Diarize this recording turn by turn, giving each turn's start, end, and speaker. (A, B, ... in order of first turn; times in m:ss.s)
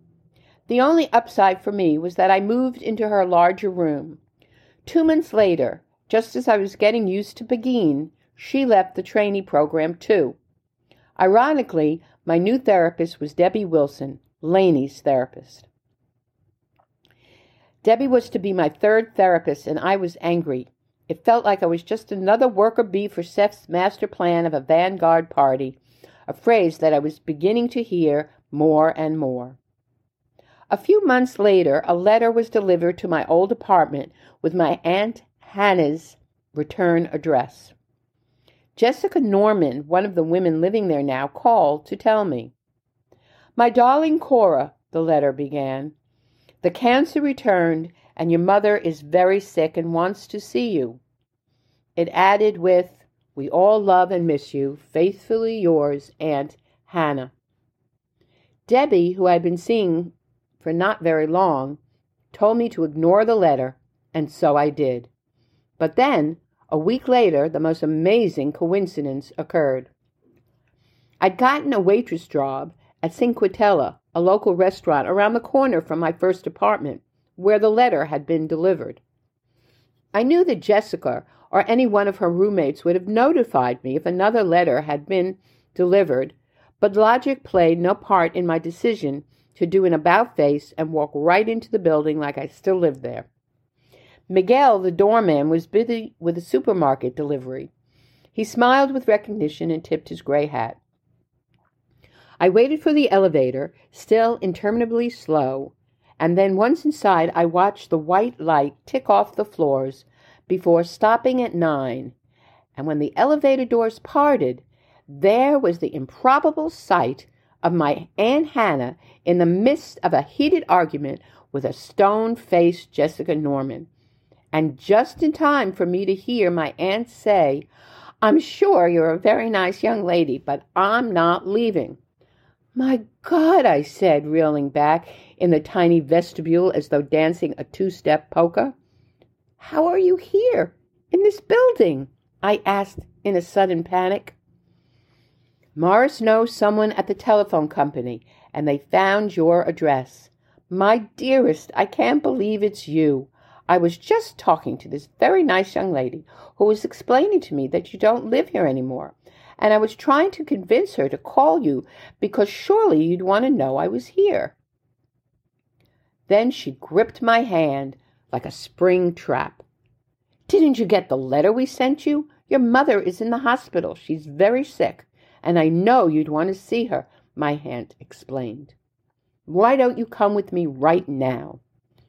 0:00.7-0:04.2 A
0:04.8-0:10.4 A
0:11.2-0:15.7 A
0:17.8-0:29.6 A
0:30.7-0:37.7 A
0:38.8-0:42.5 A
0:43.6-0:45.9 A
0:46.6-0:51.0 A
0:52.0-0:57.3 A
0:58.7-1:01.8 A
1:02.3-1:05.1 A
1:05.8-1:09.9 A
1:11.2-1:19.0 A
1:20.1-1:33.3 A
1:34.3-1:37.7 A
1:38.3-1:40.8 A
1:42.4-1:52.2 A
1:52.8-2:03.9 A
2:04.5-2:07.7 A
2:08.2-2:12.0 A
2:12.8-2:18.8 A
2:19.6-2:24.4 A
2:25.8-2:44.6 A
2:46.3-2:49.6 A
2:50.5-2:58.7 A
2:59.5-3:01.6 A